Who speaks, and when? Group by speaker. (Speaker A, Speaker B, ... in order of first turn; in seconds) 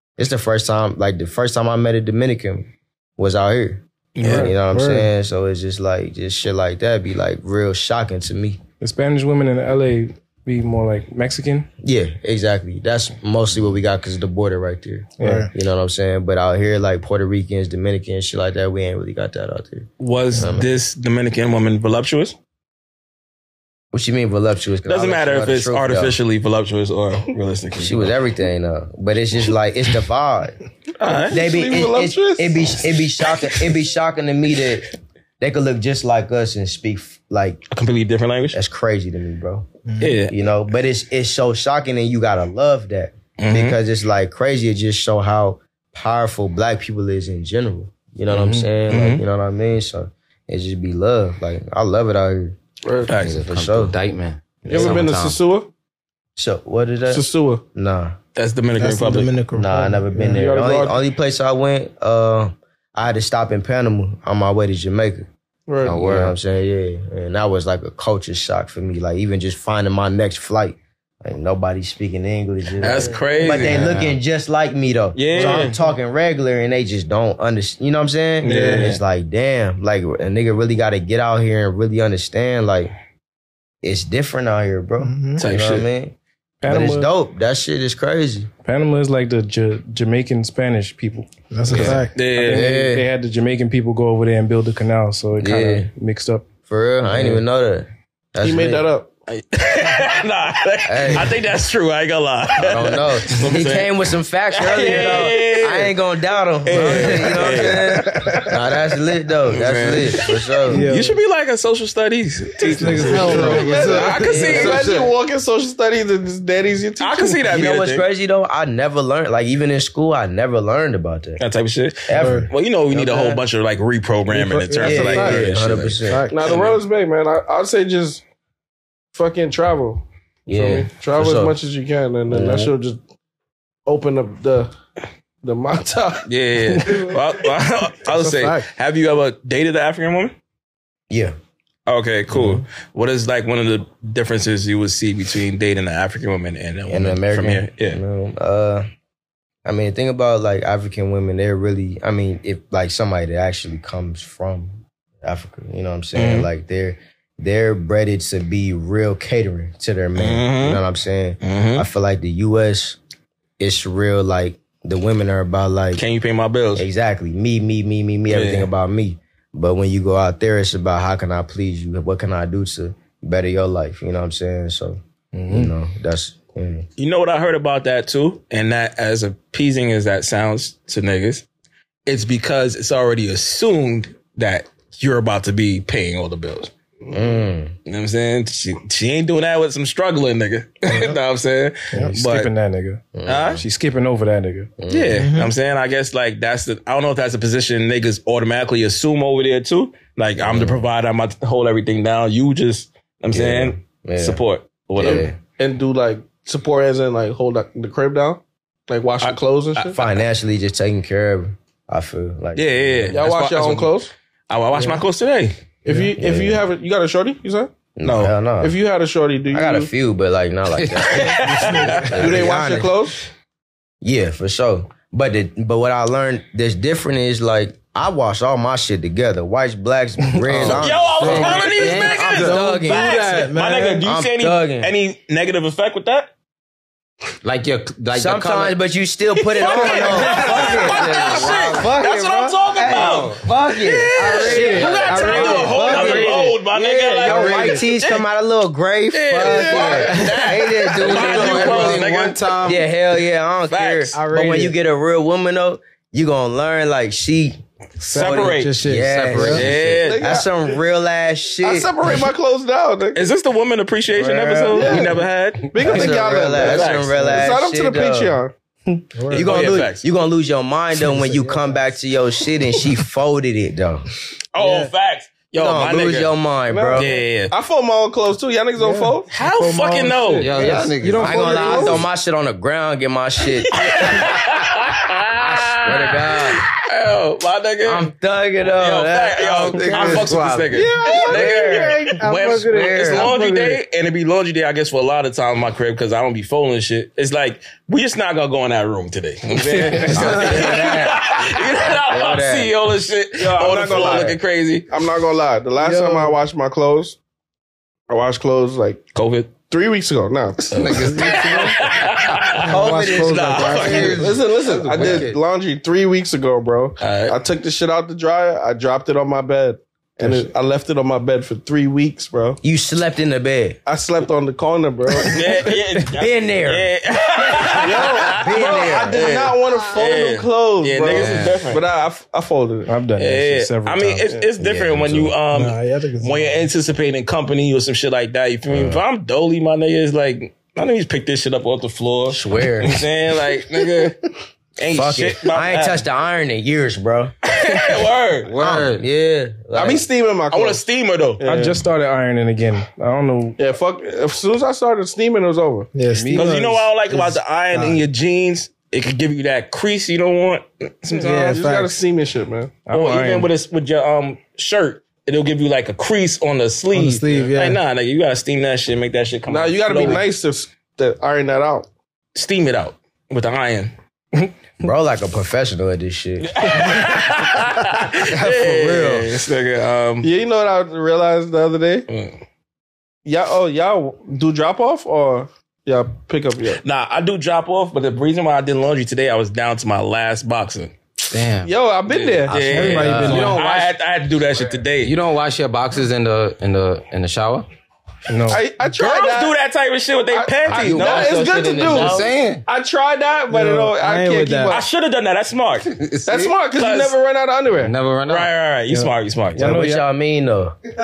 Speaker A: 0.2-8.6, 11.8-20.7, 23.9-26.2, 27.8-30.6, 31.3-37.6, 38.5-39.7, 40.3-52.6, 53.3-54.0, 54.6-55.1, 56.4-58.1, 59.5-65.2, 66.0-82.9, 83.8-88.5, 92.4-93.0, 95.4-95.9, 96.7-98.9, 100.8-101.4, 102.6-110.9, 117.4-121.4, 122.1-123.4, 124.8-126.3, 130.5-131.5, 132.3-132.7, 141.1-141.3, 146.9-148.8, 149.6-163.0, 163.6-166.0, 166.8-176.9, 187.1-187.7, 193.1-193.6, 194.8-195.3, 200.4-200.8, 203.3-204.4, 205.0-205.3, 209.9-213.2, 216.2-216.6, 217.9-218.7, 219.5-222.9, 224.0-233.2, 234.0-234.9, 238.1-252.1, 252.6-257.6, 258.1-261.9, 265.8-268.4, 269.3-274.1, 275.6-277.1, 280.6-284.3, 285.4-286.6, 287.8-293.3, 300.1-301.3, 302.1-302.7, 303.9-304.3, 312.6-314.2, 322.6-323.8, 326.1-326.9, 327.6-329.2, 334.6-335.4, 338.7-339.0, 342.3-343.0, 344.9-347.3, 348.6-350.1, 374.8-377.2, 378.2-379.4, 392.5-393.5, 400.7-402.3, 409.6-410.7
Speaker B: 4.1-4.5, 20.0-22.3, 24.8-28.1, 31.0-31.4, 37.7-38.6, 40.0-40.3, 43.4-43.8, 48.9-49.2, 53.1-53.4, 58.4-59.4, 72.8-74.0, 75.1-75.8, 78.4-79.0, 85.4-85.9, 91.7-92.8, 99.3-104.0, 104.5-106.0, 106.6-108.4, 109.5-114.8, 117.0-118.0, 121.4-126.8, 136.3-140.3, 141.9-148.0, 156.1-156.5, 160.2-160.8, 161.4-161.8, 165.9-166.9, 168.3-168.7, 177.0-181.4, 182.1-186.7, 187.8-192.5, 193.2-193.6, 194.9-205.3, 209.2-210.0, 212.5-214.0, 214.5-215.6, 218.0-218.3, 221.1-222.2, 230.5-236.3, 239.5-248.2, 249.1-252.7, 253.7-254.2, 258.1-258.8, 259.4-260.4, 263.1-265.7, 266.5-267.4, 269.3-270.0, 274.5-276.3, 276.9-277.5, 279.3-280.6, 283.7-288.1, 288.8-304.9, 309.1-309.5, 310.7-314.4, 317.0-317.4, 325.2-331.8, 333.2-346.0, 347.4-348.5, 350.5-351.4, 356.3-361.3, 362.9-370.2, 372.3-373.9, 376.4-380.3, 382.1-382.4, 386.8-390.9, 392.1-395.1, 398.9-401.5, 404.7-405.9, 406.7-407.1, 408.3-409.7
Speaker C: 4.3-5.1, 15.2-15.5, 58.8-60.4, 75.3-75.8, 78.4-78.9, 85.0-85.4, 91.5-92.1, 110.7-111.2, 112.6-114.5, 122.1-122.5, 124.3-126.4, 138.1-138.6, 195.2-195.5, 231.8-234.0, 244.1-246.6, 247.2-247.8, 249.3-250.9, 254.1-254.7, 258.0-259.6, 269.1-269.7, 271.1-271.8, 274.6-274.9, 278.8-282.0, 290.7-293.8, 300.1-300.5, 305.8-306.4, 311.0-311.6, 312.5-314.4, 335.5-336.6, 355.9-358.0, 361.1-362.0, 366.9-367.8, 392.5-393.6, 403.5-404.8
Speaker D: 8.8-11.7, 15.2-15.5, 86.6-87.1, 88.6-96.4, 112.6-113.5, 191.9-194.7, 280.8-282.0, 299.6-300.4, 332.9-334.3, 351.4-353.6, 356.1-356.5, 362.9-363.5, 398.3-398.6, 408.9-410.1
Speaker E: 31.0-32.7, 52.8-53.2, 54.7-55.7, 57.1-57.6, 60.3-61.0, 65.7-66.1, 73.0-73.4, 98.4-99.1, 113.2-117.4, 126.3-128.2, 129.1-133.0, 133.8-134.7, 135.4-136.3, 205.0-210.0, 213.1-214.1, 215.8-217.8, 218.6-219.9, 222.1-223.2, 260.0-260.5, 261.6-263.2, 264.7-268.5, 276.7-279.3, 303.4-304.4, 304.9-307.2, 308.1-311.0, 314.0-322.6, 323.9-325.7, 327.8-332.9, 349.7-350.8, 351.4-351.8, 353.6-355.9, 361.1-362.8, 369.5-371.9, 380.2-382.1, 383.2-386.8, 391.6-392.7, 398.5-399.5, 400.3-404.8, 406.2-407.9
Speaker F: 53.2-55.4, 65.8-66.3, 113.2-115.1, 220.8-221.6, 230.5-232.4, 237.4-238.7, 239.7-242.0, 242.8-243.4, 244.7-246.0, 251.0-252.8, 259.0-260.1, 264.4-264.9, 280.4-281.6, 289.9-290.3, 300.1-301.2, 310.7-312.5, 314.3-315.4, 331.1-331.7, 348.4-349.1, 391.3-391.7, 393.1-393.9, 395.0-397.6, 401.9-402.6, 405.9-406.6, 407.8-408.5